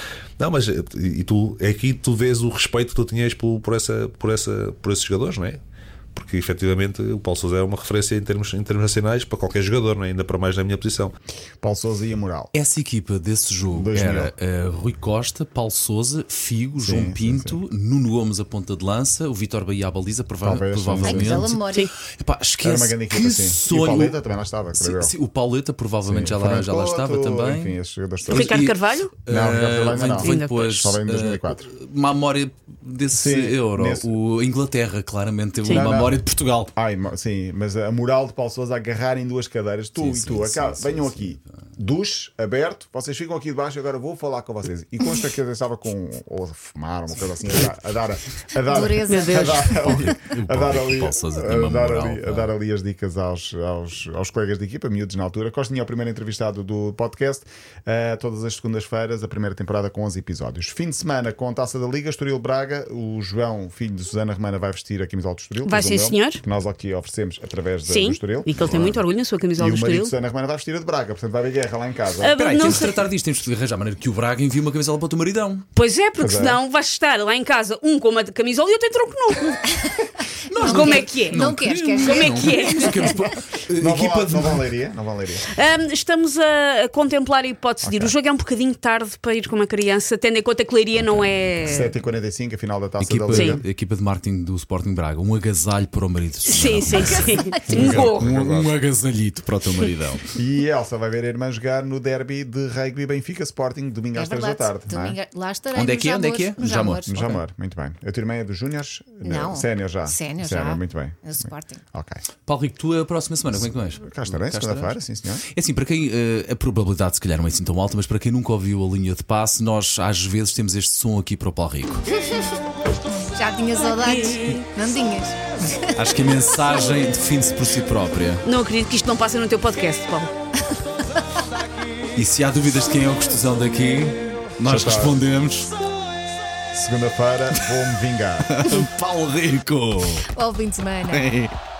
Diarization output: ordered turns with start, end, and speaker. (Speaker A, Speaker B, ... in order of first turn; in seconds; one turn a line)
Speaker A: 0.4-5.6
Speaker A: 6.1-11.1
Speaker B: 11.6-12.5
Speaker C: 12.5-24.2
Speaker B: 13.7-14.3
Speaker B: 16.8-17.6
Speaker B: 20.4-21.5
Speaker D: 21.0-21.9
Speaker B: 22.6-25.1
Speaker C: 24.7-27.8
Speaker B: 26.1-28.6
Speaker C: 28.3-36.7
Speaker E: 28.3-29.1
Speaker B: 29.3-31.7
Speaker E: 30.2-30.8
Speaker B: 33.1-34.1
Speaker E: 35.6-35.9
Speaker B: 35.7-36.2
Speaker B: 36.7-72.3
Speaker C: 40.0-41.4
Speaker D: 48.7-49.9
Speaker E: 49.0-49.7
Speaker C: 49.7-52.5
Speaker E: 65.6-66.4
Speaker E: 67.8-70.1
Speaker E: 72.2-72.9
Speaker C: 72.3-75.7
Speaker E: 75.8-79.8
Speaker B: 76.2-76.6
Speaker C: 80.5-84.6
Speaker E: 80.5-83.1
Speaker D: 80.6-83.1
Speaker B: 83.8-85.5
Speaker E: 85.5-91.9
Speaker B: 87.8-88.1
Speaker B: 91.6-93.7
Speaker C: 93.0-100.2
Speaker E: 93.3-93.6
Speaker E: 96.5-98.3
Speaker D: 97.5-97.8
Speaker B: 97.7-98.6
Speaker B: 100.3-105.2
Speaker D: 104.1-107.4
Speaker C: 105.7-107.2
Speaker B: 107.1-112.2
Speaker D: 109.2-111.8
Speaker C: 112.5-115.0
Speaker B: 113.6-115.5
Speaker C: 115.5-122.0
Speaker D: 123.3-125.9
Speaker E: 123.8-124.6
Speaker C: 126.0-128.4
Speaker E: 128.4-130.3
Speaker C: 132.2-135.7
Speaker B: 134.6-135.2
Speaker B: 136.7-138.6
Speaker C: 138.5-140.3
Speaker D: 140.3-141.3
Speaker C: 141.1-141.5